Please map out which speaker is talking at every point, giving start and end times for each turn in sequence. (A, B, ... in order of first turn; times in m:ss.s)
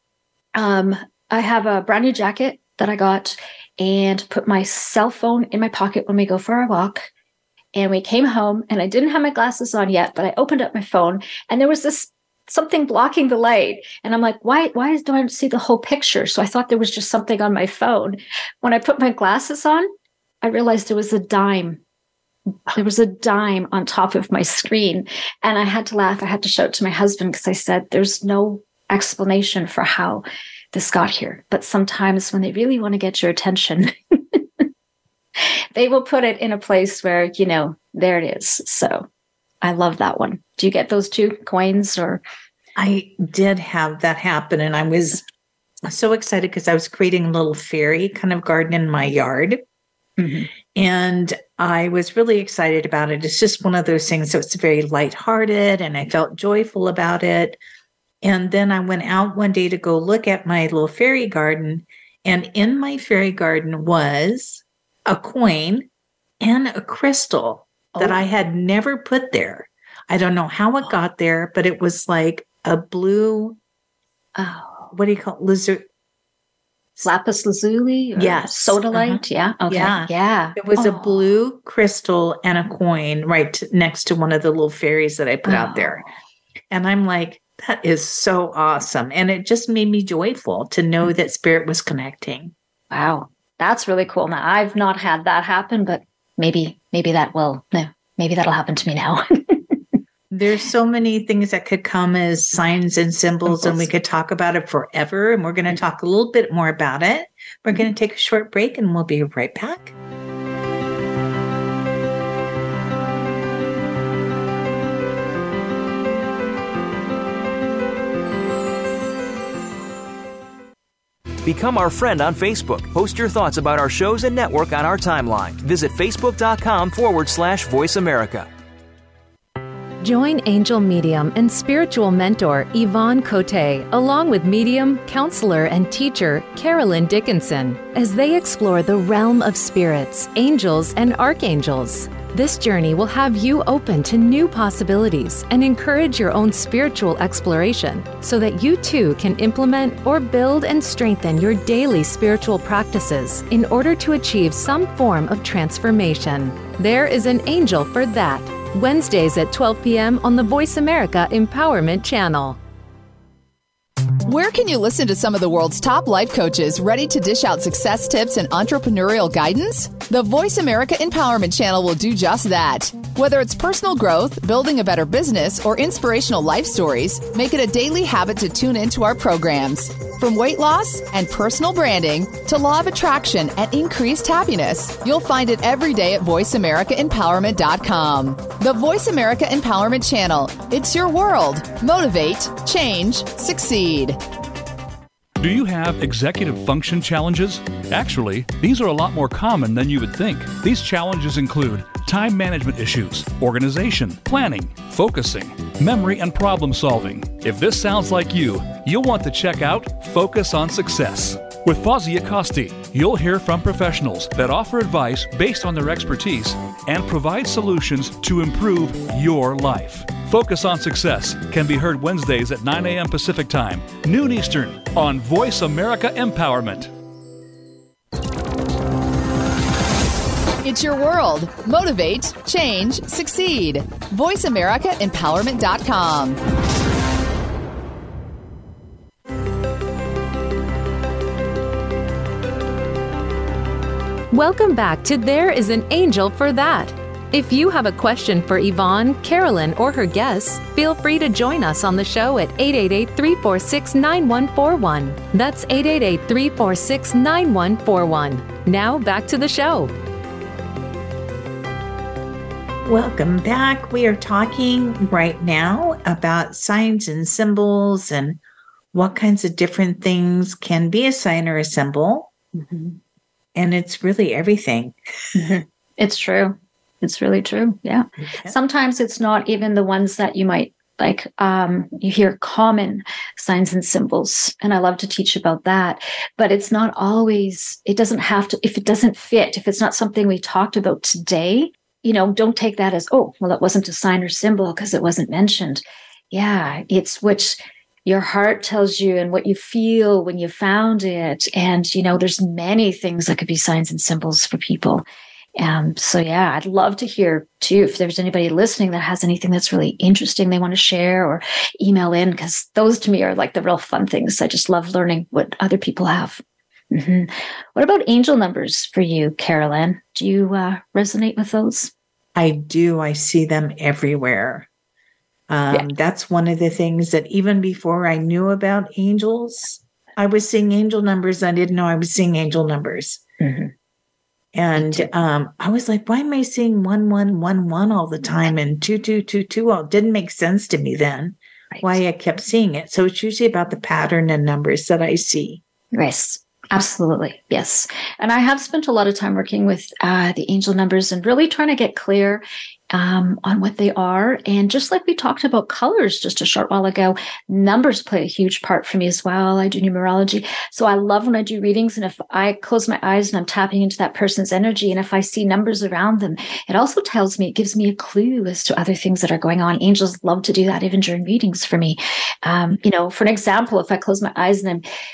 0:00.6-0:07.1 A
0:07.8-0:19.9 A
0:20.4-0:21.8 A
0:22.7-0:34.4 A
0:35.4-0:39.1 A
0:39.6-0:42.2 A
0:42.8-0:45.2 B
0:45.9-0:49.6 B
0:50.2-0:50.5 A
0:50.8-0:57.6 B
0:58.2-1:05.9 B
1:06.4-1:13.6 B
1:14.4-1:14.9 A
1:14.9-1:15.8 B
1:17.0-1:21.3 A
1:18.2-1:26.0 B
1:25.5-1:26.1 A
1:26.7-1:32.5 B
1:32.9-1:39.8 A
1:40.3-1:50.0 B
1:43.5-1:43.9 A
2:01.4-2:08.5 C
2:10.0-2:42.6 D
2:44.2-3:14.2 E
3:15.4-3:46.9 F
3:50.6-3:56.4 E
4:04.3-4:19.9 D
4:22.8-4:28.4 B
4:28.9-4:32.3 B
4:32.5-4:33.0 A
4:33.6-4:35.0 B
4:35.4-5:05.0 A
5:05.6-5:21.9 A
5:22.4-5:24.7 B
5:25.5-5:33.2 B
5:33.4-5:33.7 A
5:34.5-5:45.6 B
5:34.8-5:35.1 A
5:41.7-5:42.0 A
5:45.9-6:14.8 A